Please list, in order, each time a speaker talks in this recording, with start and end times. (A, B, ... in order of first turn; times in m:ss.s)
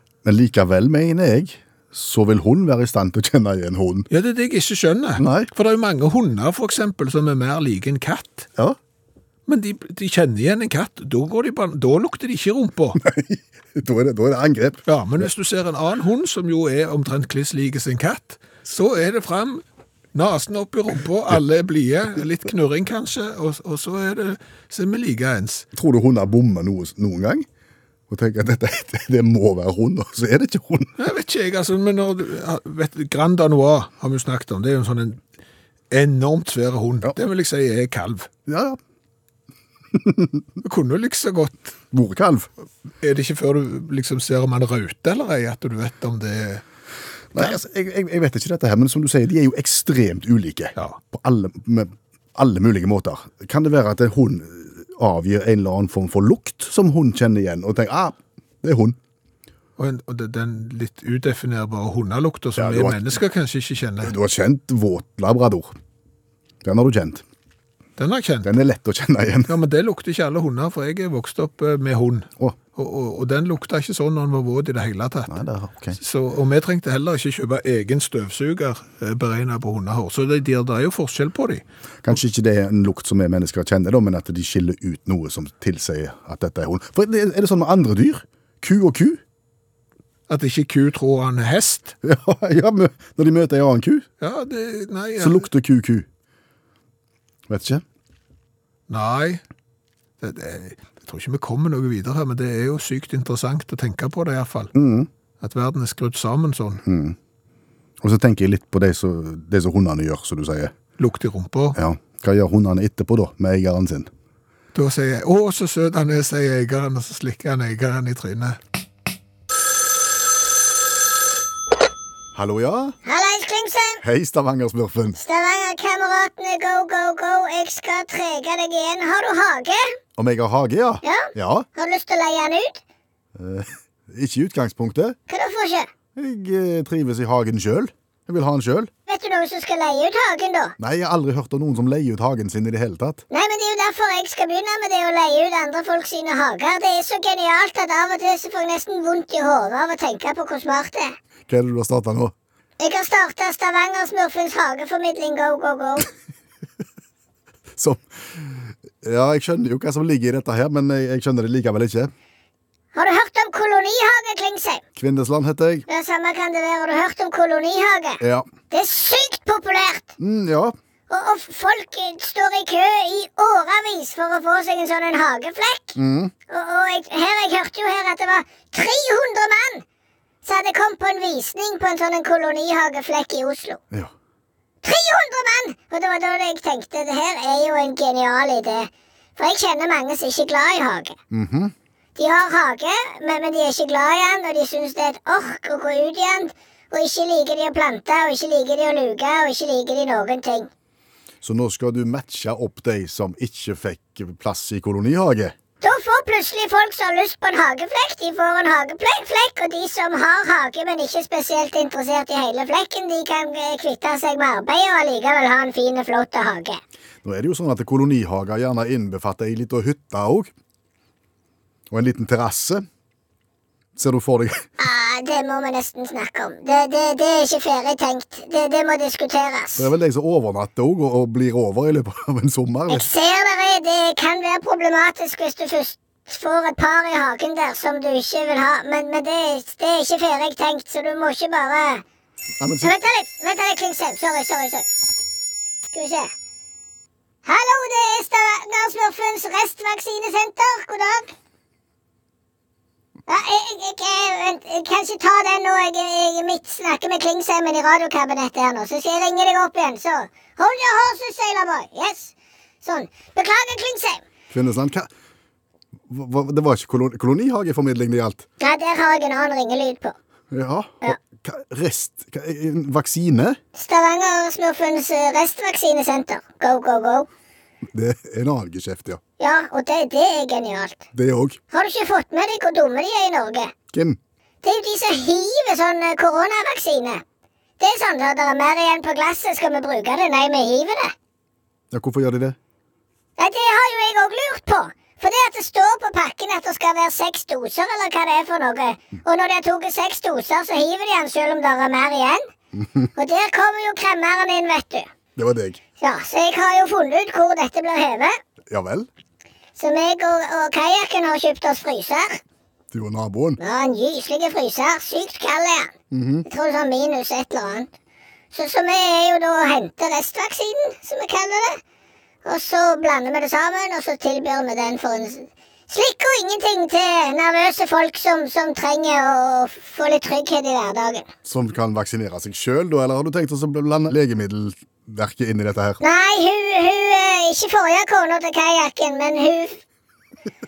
0:00.2-0:04.1 A
0:04.1-0:08.5 B
0:05.2-0:05.5 A
0:09.5-0:13.0 B
0:13.0-0:14.8 A
0:14.8-0:19.6 B
0:20.1-0:25.6 B
0:25.7-0:27.5 A
0:28.1-0:31.0 A
0:31.0-0:35.2 B
0:35.9-0:38.3 B
0:38.4-0:38.8 A
0:39.9-0:40.4 A
0:40.6-0:41.7 B
0:41.9-0:42.5 A
0:43.0-0:46.6 B
0:47.3-0:59.0 A
0:59.8-1:04.2 B
1:02.6-1:03.1 A
1:04.0-1:05.7 A
1:06.6-1:07.2 A
1:08.0-1:08.5 B
1:08.4-1:09.5 A
1:09.4-1:15.4 B
1:15.3-1:16.0 A
1:15.9-1:21.6 B
1:22.0-1:29.2 A
1:30.3-1:32.0 B
1:32.0-1:34.1 A
1:34.2-1:35.5 B
1:35.2-1:36.1 A
1:37.5-1:37.8 A
1:38.9-1:39.4 B
1:40.2-1:44.7 B
1:44.7-1:45.1 A
1:45.4-1:46.8 B
1:46.8-1:47.2 A
1:48.0-1:50.7 A
1:51.0-1:51.8 B
1:51.8-1:54.1 A
1:54.7-1:58.6 B
2:02.3-2:03.0 A
2:03.0-2:04.0 C
2:04.0-2:05.2 A
2:05.2-2:10.0 C
2:10.2-2:11.7 A
2:11.0-2:12.8 C
2:13.3-2:15.2 A
2:15.3-2:15.9 C
2:16.2-2:18.9 A
2:19.1-2:20.7 C
2:20.8-2:23.2 A
2:23.3-2:31.1 C
2:31.5-2:32.3 A
2:32.8-2:36.1 C
2:37.8-2:42.1 A
2:42.9-2:44.8 C
2:45.0-2:45.9 A
2:45.9-2:50.1 C
2:48.2-2:48.5 A
2:50.2-2:50.7 A
2:51.1-2:56.0 C
2:56.0-2:56.3 A
2:56.5-2:59.8 C
3:00.4-3:03.8 C
3:04.8-3:11.2 C
3:11.3-3:11.7 A
3:12.2-3:20.7 C
3:21.4-3:25.5 A
3:25.8-3:36.8 C
3:37.2-3:40.5 A
3:41.9-3:42.8 A
3:44.0-3:44.6 A
3:44.8-3:49.9 C
3:49.8-3:53.1 A
3:52.9-4:02.0 C
4:02.6-4:03.0 A
4:02.8-4:04.9 C
4:05.9-4:06.3 C
4:07.4-4:11.3 C
4:13.3-4:24.2 C
4:24.5-4:25.1 A
4:26.1-4:28.4 A
4:28.6-4:30.1 C
4:30.5-4:33.6 A
4:33.7-4:37.3 C
4:37.9-4:39.2 A
4:39.4-4:41.0 C
4:41.1-4:41.6 A
4:41.7-4:43.7 C
4:43.9-4:44.2 A
4:44.6-4:47.2 C
4:47.8-4:51.1 C
4:51.9-4:52.6 A
4:53.4-5:02.4 C
5:02.7-5:03.1 A
5:03.1-5:05.1 C
5:05.4-5:05.8 A
5:06.0-5:08.4 C
5:08.7-5:09.1 A
5:09.8-5:12.4 C
5:12.9-5:13.6 A
5:13.6-5:15.9 C
5:16.1-5:16.5 A
5:16.5-5:17.9 C
5:18.5-5:21.8 C
5:22.4-5:31.3 C
5:31.4-5:36.0 A
5:36.0-5:39.8 C